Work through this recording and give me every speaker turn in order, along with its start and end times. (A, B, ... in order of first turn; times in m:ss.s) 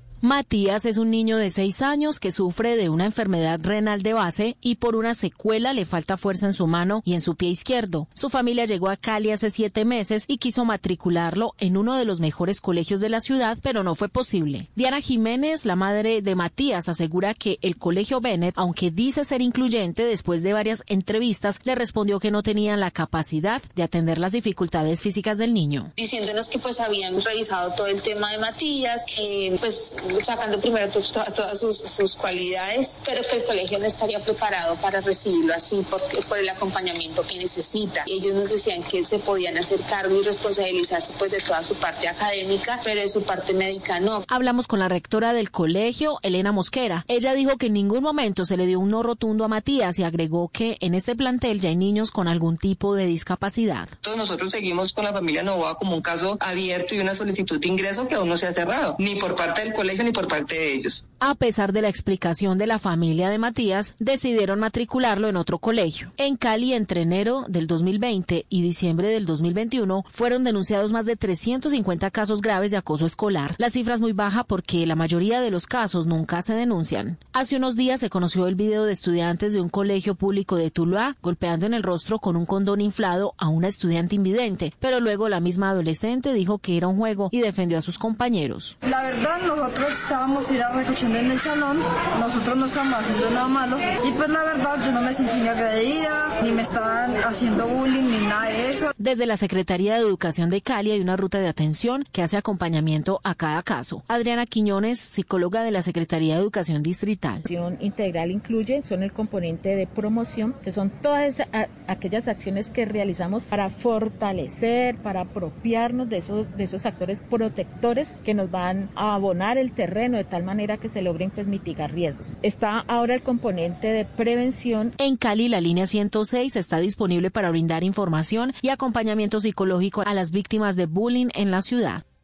0:00.2-0:25.9 A
0:26.0-0:44.2 B
0:44.3-0:53.9 A
0:54.0-1:01.0 C
1:01.2-1:28.8 A
1:28.8-1:38.9 D
1:39.0-1:47.4 A
1:47.5-2:05.0 E
2:05.0-2:12.0 A